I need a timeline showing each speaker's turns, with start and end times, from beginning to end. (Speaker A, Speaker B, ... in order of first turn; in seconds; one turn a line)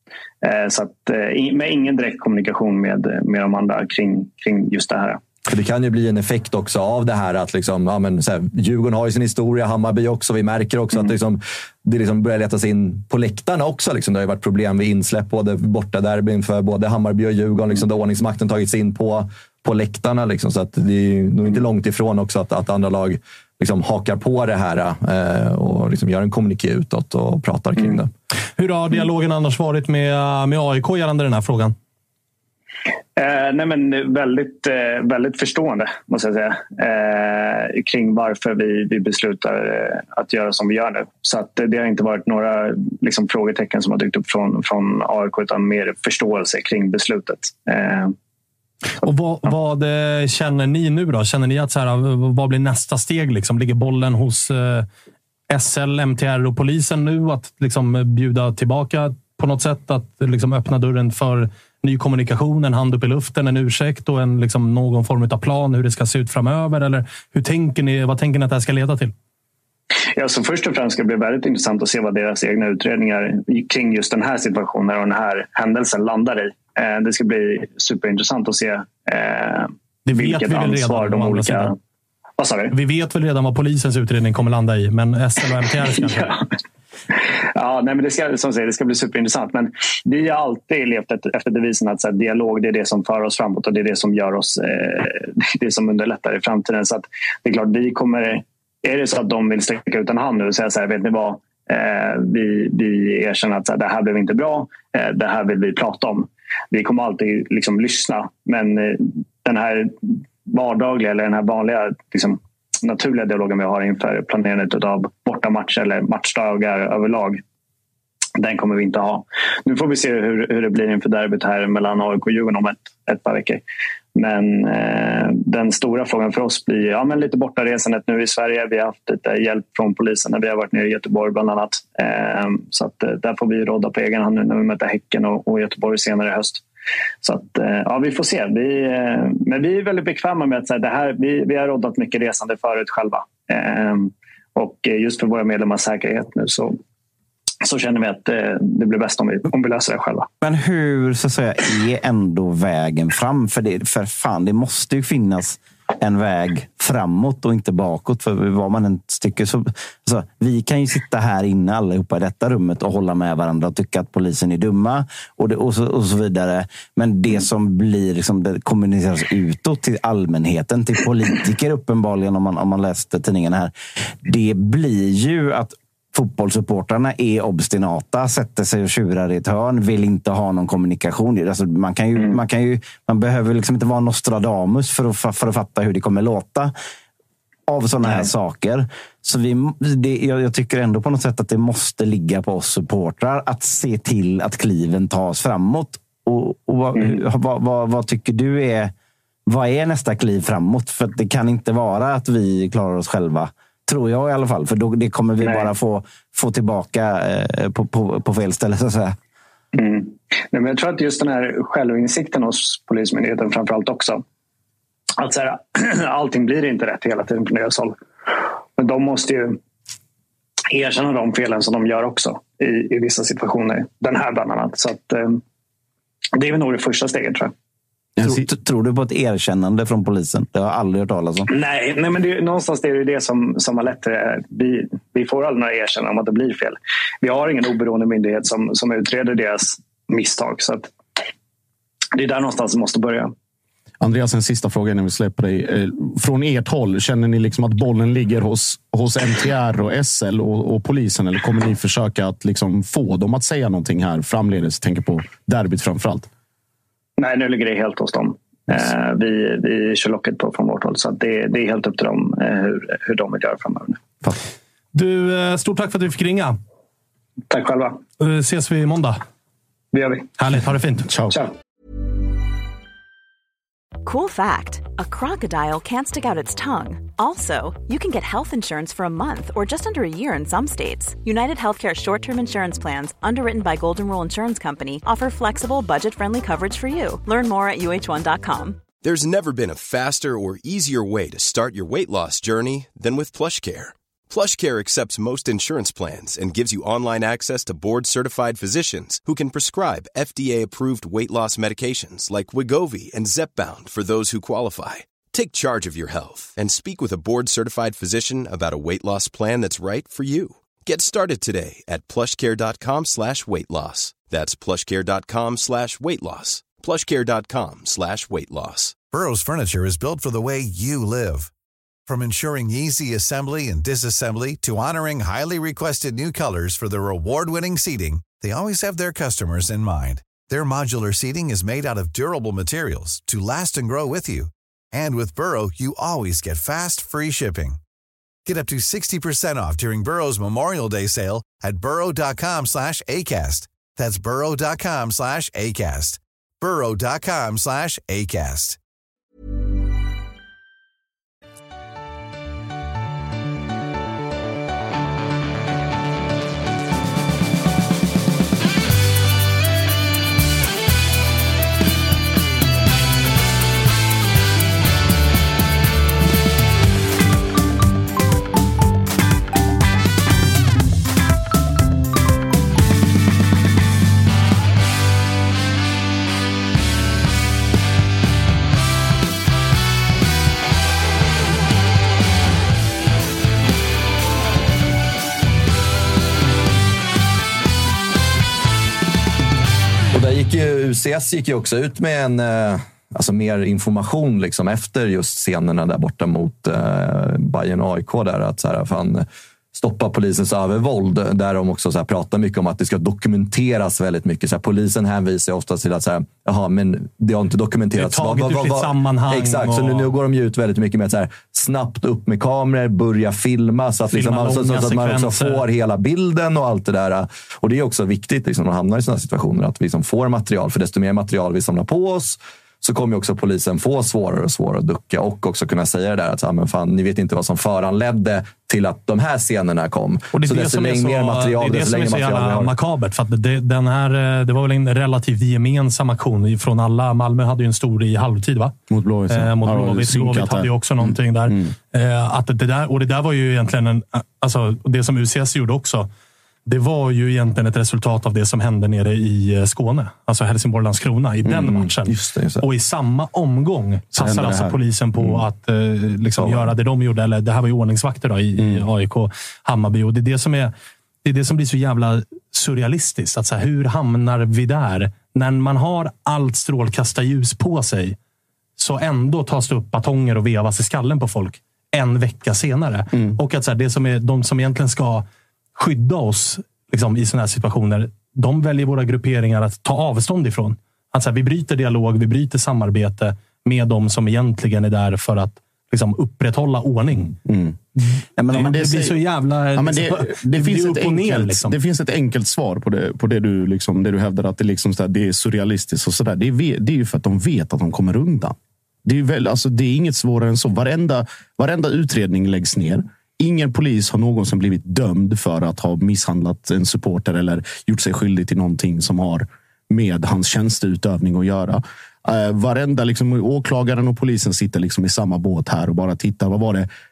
Speaker A: 0.4-5.2
Speaker B: 5.5-28.1
Speaker C: 28.6-31.7
Speaker A: 33.1-48.1
Speaker C: 49.0-54.9
Speaker C: 55.5-69.1
Speaker A: 70.2-81.8
Speaker C: 80.0-81.7
Speaker A: 82.4-82.8
Speaker C: 82.7-86.3
Speaker A: 86.0-86.4
Speaker A: 87.5-117.4
Speaker A: 118.4-123.6
Speaker A: 124.1-136.6
Speaker A: 137.2-146.8
Speaker A: 147.6-150.3
Speaker D: 150.4-173.7
Speaker D: 174.2-186.7
Speaker D: 187.7-198.9
Speaker D: 199.5-209.2
Speaker A: 205.4-205.7
Speaker A: 209.7-214.2
Speaker A: 215.2-218.0
Speaker A: 218.8-219.6
Speaker A: 220.7-225.4
Speaker A: 226.3-227.5
Speaker E: 228.2-228.5
Speaker D: 228.2-231.5
Speaker A: 231.5-240.9
Speaker A: 242.1-243.3
Speaker E: 244.0-256.3
Speaker A: 257.2-264.0
Speaker C: 264.9-266.6
Speaker A: 267.5-268.0
Speaker C: 268.2-269.2
Speaker A: 269.9-270.3
Speaker C: 270.4-271.1
Speaker E: 271.1-271.4
Speaker F: 274.0-288.8
Speaker G: 289.0-318.9
Speaker H: 319.1-321.5
Speaker H: 322.1-337.8
Speaker H: 338.4-348.8
Speaker B: 390.1-432.7
Speaker C: 407.9-410.1
Speaker C: 414.1-415.6
Speaker C: 430.3-438.8
Speaker E: 438.9-441.7
Speaker C: 439.3-446.1
Speaker C: 446.6-460.7
Speaker B: 451.4-452.6
Speaker E: 454.1-454.8
Speaker C: 461.2-468.2
Speaker C: 468.8-487.4
Speaker E: 487.4-487.8
Speaker D: 488.4-489.0
Speaker E: 488.5-489.2
Speaker C: 488.5-491.7
Speaker E: 489.8-516.9